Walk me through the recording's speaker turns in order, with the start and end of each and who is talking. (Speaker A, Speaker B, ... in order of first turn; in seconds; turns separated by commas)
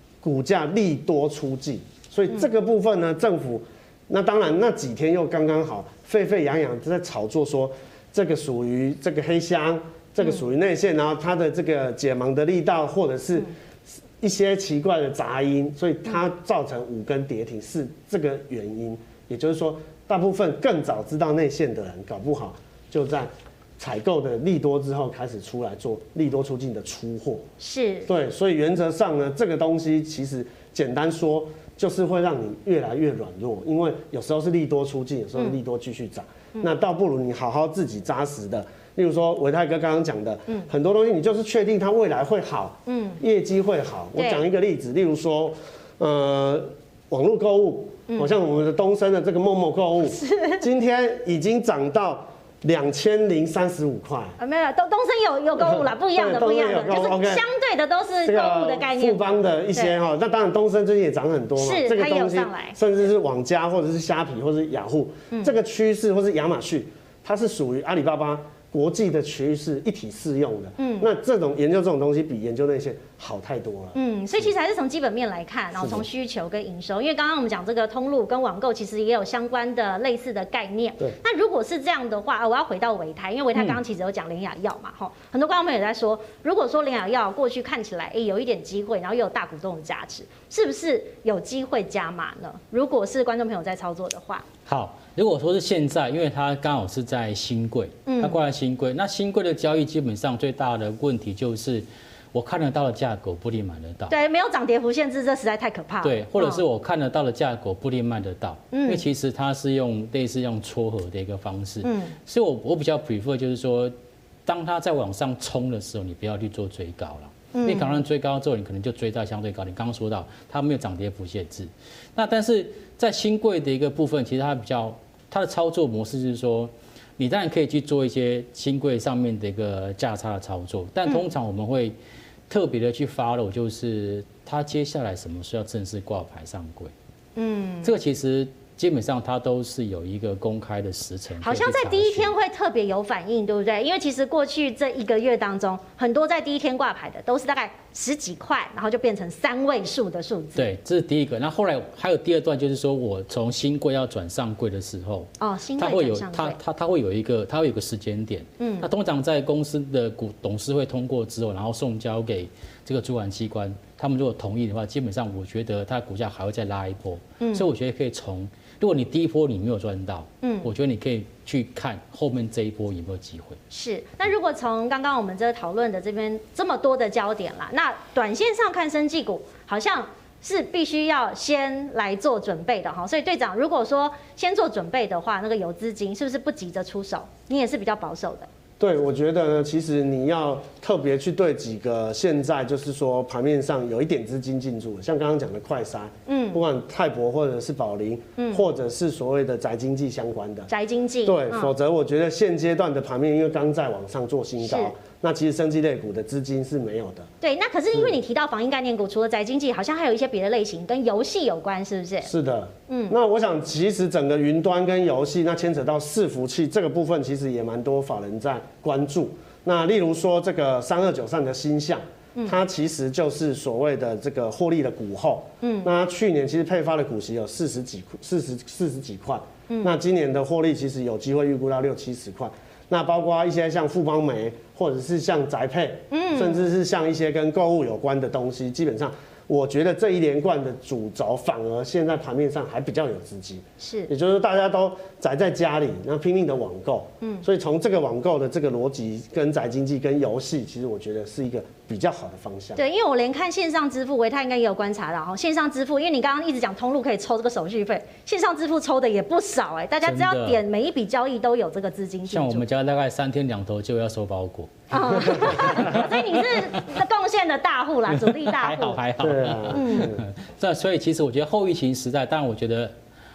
Speaker A: 0.2-27.4, Speaker B: 27.6-28.1, Speaker A: 28.1-54.4, Speaker B: 42.9-43.2, Speaker B: 44.1-44.4, Speaker B: 50.0-50.6, Speaker B: 54.4-60.0, Speaker A: 55.6-57.4, Speaker A: 58.2-74.5, Speaker B: 61.6-62.8, Speaker B: 70.8-71.1, Speaker B: 73.9-94.4, Speaker A: 75.8-76.0, Speaker C: 94.7-104.1, Speaker B: 98.0-98.4, Speaker B: 104.1-106.6, Speaker C: 106.0-113.9, Speaker B: 108.7-109.0, Speaker B: 111.8-112.1, Speaker C: 114.5-131.9, Speaker B: 117.5-118.0, Speaker C: 132.5-136.9, Speaker B: 137.3-137.9, Speaker C: 137.8-142.3, Speaker B: 141.4-150.7, Speaker C: 150.6-173.6, Speaker B: 155.4-156.6, Speaker B: 158.6-158.9, Speaker B: 167.4-167.7, Speaker B: 170.4-170.7, Speaker B: 173.7-188.5, Speaker A: 188.8-200.7, Speaker B: 196.3-196.6, Speaker B: 198.4-198.6, Speaker B: 200.7-201.7, Speaker A: 201.2-207.3, Speaker B: 204.6-204.9, Speaker B: 207.4-212.3, Speaker A: 212.2-252.8, Speaker B: 212.9-213.1, Speaker B: 225.6-225.9, Speaker B: 236.1-236.6, Speaker B: 243.8-244.1, Speaker B: 247.2-247.4, Speaker B: 252.7-262.6, Speaker C: 260.0-260.6, Speaker C: 262.3-266.8, Speaker B: 264.9-269.0, Speaker C: 268.1-272.9, Speaker A: 269.2-270.2, Speaker B: 269.7-270.2